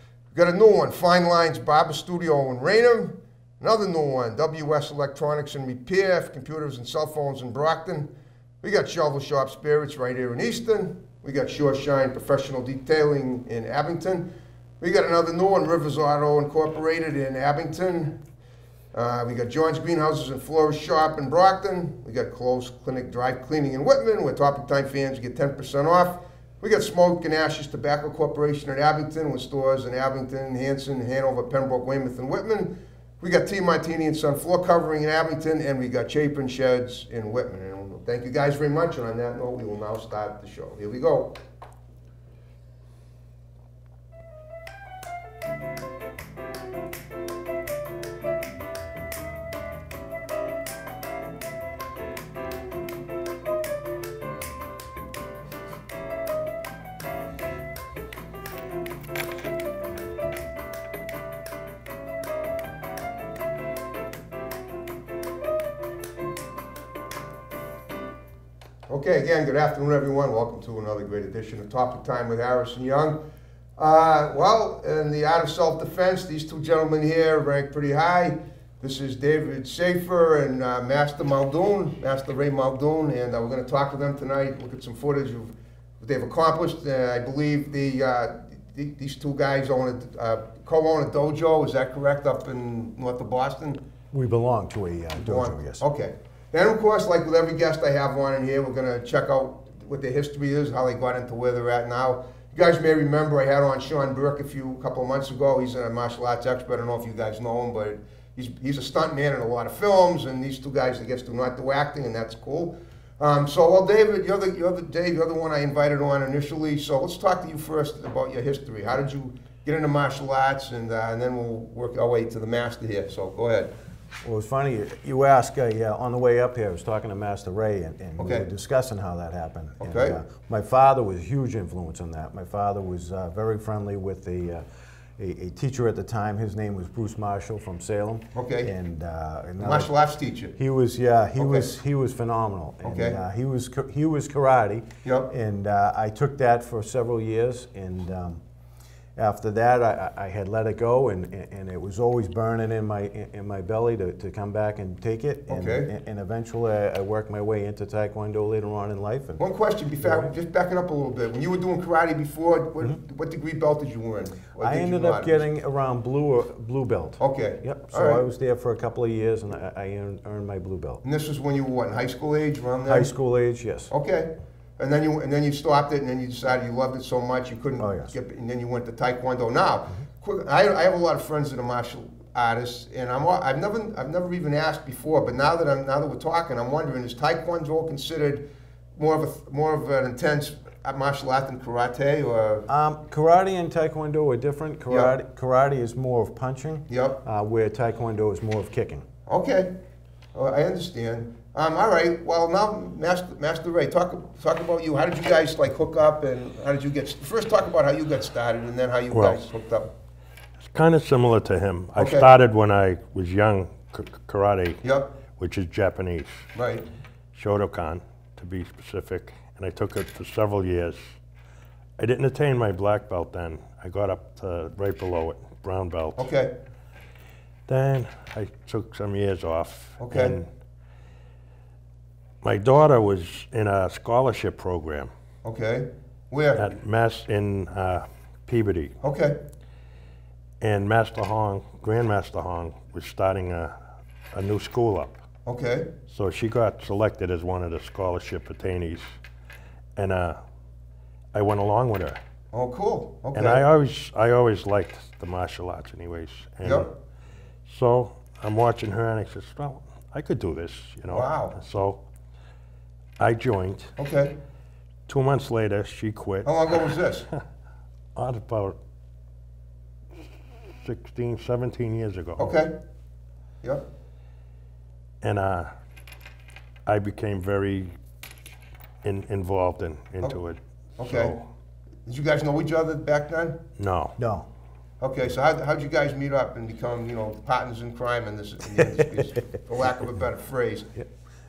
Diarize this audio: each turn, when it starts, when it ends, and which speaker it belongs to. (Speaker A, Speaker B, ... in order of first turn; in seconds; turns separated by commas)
Speaker A: 0.3-8.1, Speaker A: 8.6-18.2, Speaker A: 18.9-41.4, Speaker A: 68.9-73.2, Speaker A: 73.8-93.8, Speaker B: 94.1-95.8, Speaker A: 95.2-123.7, Speaker B: 124.2-134.6, Speaker A: 128.2-128.5, Speaker A: 129.8-130.2, Speaker B: 135.2-139.9, Speaker A: 138.3-138.7, Speaker A: 139.6-140.6, Speaker B: 140.6-148.4, Speaker A: 141.4-141.7, Speaker A: 142.8-143.2, Speaker A: 145.0-145.3, Speaker B: 149.2-159.4, Speaker A: 155.5-155.9, Speaker A: 159.4-165.4, Speaker B: 160.0-160.3, Speaker B: 164.6-171.0, Speaker A: 167.2-168.2, Speaker A: 171.0-173.1, Speaker B: 172.9-173.9, Speaker A: 173.9-192.7, Speaker B: 177.8-178.1, Speaker B: 192.7-199.1, Speaker A: 194.9-195.1, Speaker A: 196.9-197.2, Speaker A: 199.3-199.7, Speaker A: 200.3-209.9, Speaker C: 209.1-209.4, Speaker C: 210.6-216.5, Speaker A: 212.0-212.2, Speaker A: 214.8-215.1, Speaker A: 216.5-216.8, Speaker C: 217.3-221.2, Speaker C: 222.0-226.3, Speaker A: 226.2-226.5, Speaker C: 227.7-230.5, Speaker A: 230.0-230.3, Speaker C: 232.4-235.1, Speaker A: 235.4-236.7, Speaker C: 236.6-239.0, Speaker A: 239.0-239.4, Speaker C: 240.6-243.8, Speaker C: 244.3-245.2, Speaker A: 245.4-245.9, Speaker C: 246.1-249.1, Speaker C: 249.9-250.4, Speaker C: 251.3-252.2, Speaker A: 252.5-253.6, Speaker C: 253.3-256.9, Speaker A: 256.6-256.9, Speaker C: 257.6-262.0, Speaker A: 261.1-261.6, Speaker C: 263.2-263.9, Speaker A: 264.0-264.4, Speaker C: 265.1-267.4, Speaker A: 266.4-267.2, Speaker C: 268.1-268.8, Speaker C: 270.7-272.5, Speaker A: 272.4-272.7, Speaker C: 275.2-275.7, Speaker C: 276.9-277.9, Speaker C: 279.0-281.4, Speaker A: 281.0-281.3, Speaker A: 282.1-283.6, Speaker C: 283.8-284.2, Speaker B: 284.2-284.5, Speaker A: 285.0-290.9